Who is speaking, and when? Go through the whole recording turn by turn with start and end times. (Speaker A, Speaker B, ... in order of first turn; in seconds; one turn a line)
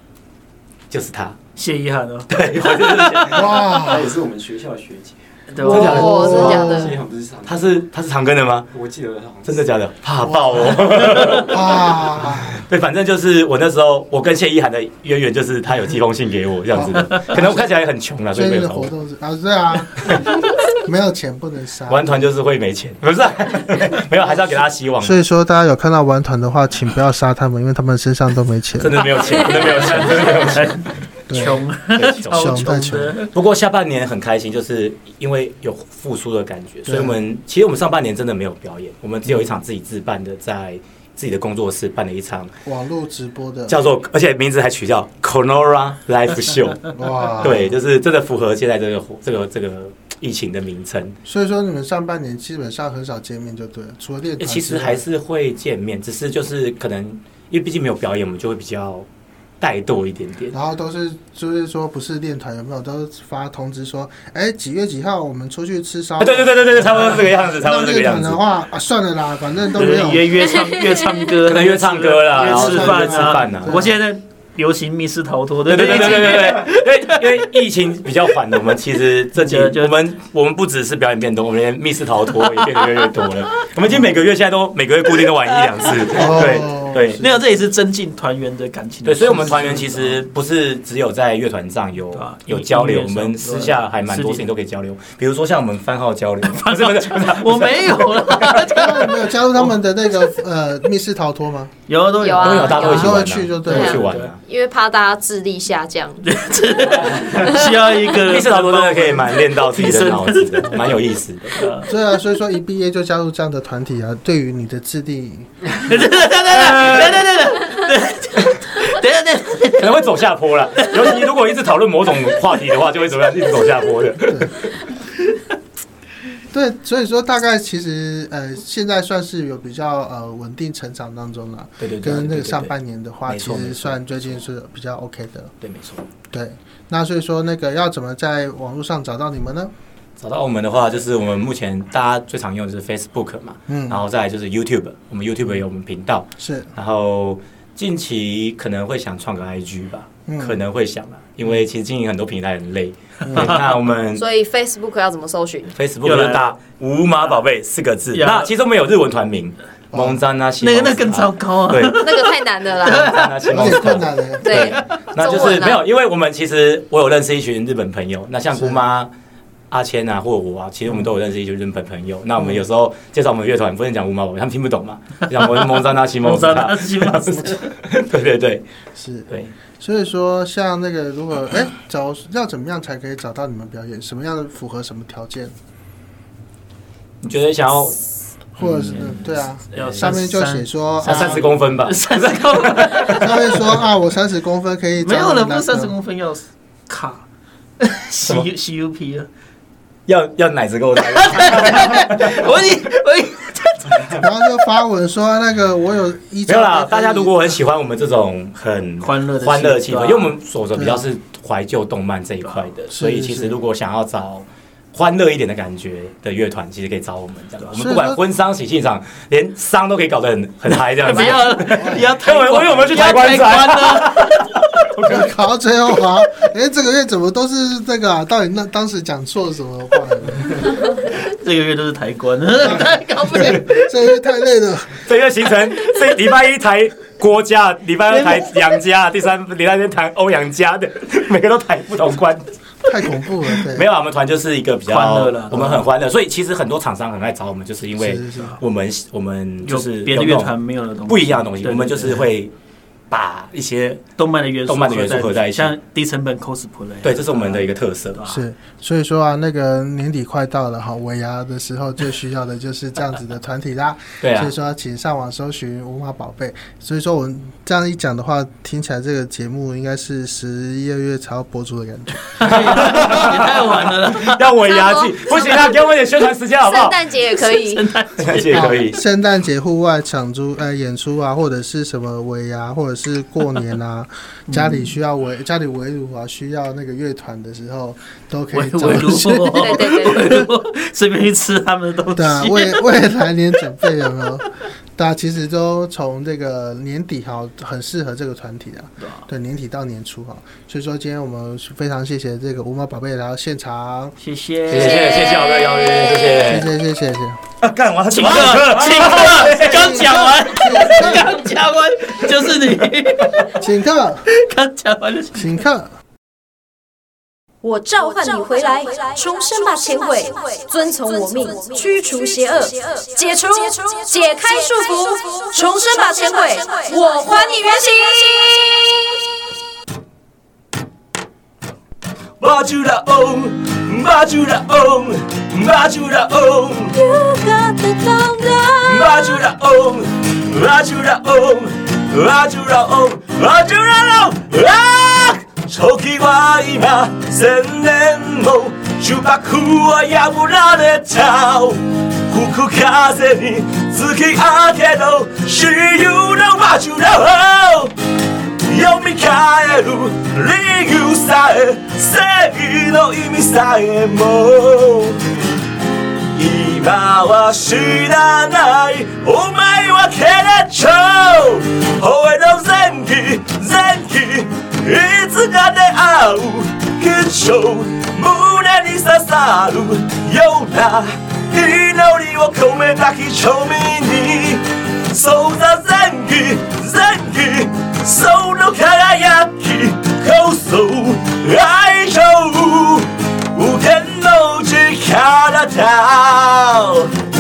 Speaker A: 0.9-1.4
Speaker B: 1.6-3.4
Speaker A: 2.3-3.5
Speaker C: 3.3-4.1
Speaker D: 3.6-5.2
Speaker B: 5.5-6.2
Speaker C: 5.7-6.9
Speaker A: 5.7-6.6
Speaker E: 5.7-7.0
Speaker D: 5.8-7.8
Speaker A: 7.5-8.7
Speaker D: 8.7-9.6
Speaker A: 9.5-18.9
Speaker C: 10.2-12.6
Speaker C: 16.7-17.7
Speaker C: 18.3-22.3
Speaker A: 21.9-25.2
Speaker C: 25.0-29.2
Speaker A: 28.8-30.8
Speaker B: 29.7-33.3
Speaker C: 31.3-31.6
Speaker A: 31.9-32.7
Speaker C: 32.3-33.2
Speaker A: 33.3-42.5
Speaker C: 36.9-37.2
Speaker C: 42.6-43.9
Speaker A: 43.7-51.2
Speaker C: 46.9-47.8
Speaker C: 51.2-55.0
Speaker A: 54.4-59.1
Speaker A: 59.6-60.6
Speaker C: 60.5-70.6
Speaker A: 66.2-68.4
Speaker B: 69.8-77.6
Speaker A: 71.5-73.8
Speaker C: 72.4-74.0
Speaker A: 75.7-87.2
Speaker B: 79.4-80.0
Speaker B: 82.5-83.1
Speaker C: 86.1-87.4
Speaker B: 87.2-90.2
Speaker A: 89.0-98.3
Speaker B: 92.1-94.5
Speaker B: 96.4-99.8
Speaker C: 98.6-101.7
Speaker B: 101.9-103.2
Speaker E: 102.2-103.2
Speaker A: 102.4-104.4
Speaker C: 102.8-104.0
Speaker E: 103.7-106.2
Speaker B: 103.7-104.3
Speaker B: 106.2-110.9
Speaker E: 107.4-107.8
Speaker A: 108.2-111.7
Speaker B: 111.5-111.9
Speaker C: 111.9-115.5
Speaker B: 115.8-119.9
Speaker A: 116.6-117.2
Speaker A: 119.8-124.7
Speaker C: 124.3-124.5
Speaker C: 126.5-135.5
Speaker A: 131.8-132.7
Speaker A: 133.3-134.4
Speaker A: 135.6-136.1
Speaker C: 136.3-139.7
Speaker A: 140.2-154.2
Speaker C: 143.7-144.0
Speaker C: 146.4-146.7
Speaker C: 150.3-150.6
Speaker C: 153.2-153.6
Speaker E: 154.2-155.7
Speaker A: 155.7-162.0
Speaker B: 156.0-156.6
Speaker B: 158.1-158.5
Speaker C: 159.9-160.2
Speaker B: 160.6-163.8
Speaker E: 162.0-163.2
Speaker A: 163.0-169.1
Speaker C: 163.5-164.7
Speaker E: 164.4-165.8
Speaker B: 164.5-164.8
Speaker C: 168.5-168.8
Speaker A: 169.7-178.7
Speaker B: 176.2-177.7
Speaker C: 179.0-185.5
Speaker A: 187.2-188.0
Speaker C: 188.6-191.4
Speaker A: 188.6-190.1
Speaker B: 189.7-193.6
Speaker A: 191.0-193.4
Speaker C: 193.1-195.9
Speaker B: 195.0-197.2
Speaker B: 197.8-199.3
Speaker A: 200.1-202.7
Speaker B: 201.2-204.2
Speaker C: 204.2-207.5
Speaker A: 206.5-225.3
Speaker B: 209.0-210.4
Speaker C: 210.7-211.1
Speaker C: 212.9-213.6
Speaker C: 217.7-218.2
Speaker B: 221.0-224.6
Speaker C: 221.7-222.1
Speaker C: 225.1-230.8
Speaker B: 231.1-233.9
Speaker C: 232.7-235.0
Speaker A: 235.0-242.9
Speaker B: 238.2-238.5
Speaker C: 242.8-243.9
Speaker A: 243.6-250.6
Speaker B: 244.9-245.9
Speaker C: 248.0-248.6
Speaker B: 249.6-252.3
Speaker A: 251.1-252.5
Speaker A: 253.1-254.0
Speaker B: 254.2-258.4
Speaker A: 254.7-255.8
Speaker A: 257.0-258.2
Speaker C: 258.3-273.3
Speaker A: 264.2-264.5
Speaker B: 272.4-274.4
Speaker A: 272.9-277.1
Speaker E: 274.6-275.7
Speaker E: 276.6-277.8
Speaker B: 277.4-278.7
Speaker A: 278.2-279.0
Speaker C: 278.5-290.5
Speaker B: 284.5-284.9
Speaker B: 288.5-293.1
Speaker E: 289.6-290.4
Speaker C: 292.1-304.1
Speaker B: 304.2-305.2
Speaker A: 304.7-306.7
Speaker E: 305.1-306.3
Speaker C: 306.3-307.4
Speaker A: 307.6-310.4
Speaker B: 308.1-313.6
Speaker C: 309.4-311.3
Speaker C: 313.6-314.2
Speaker B: 314.3-315.6
Speaker C: 315.4-315.9
Speaker F: 317.6-329.2
Speaker E: 317.9-322.7
Speaker E: 324.1-328.7
Speaker G: 332.4-337.0
Speaker F: 336.9-339.3
Speaker G: 338.8-357.9
Speaker G: 358.6-365.2
Speaker G: 366.3-397.1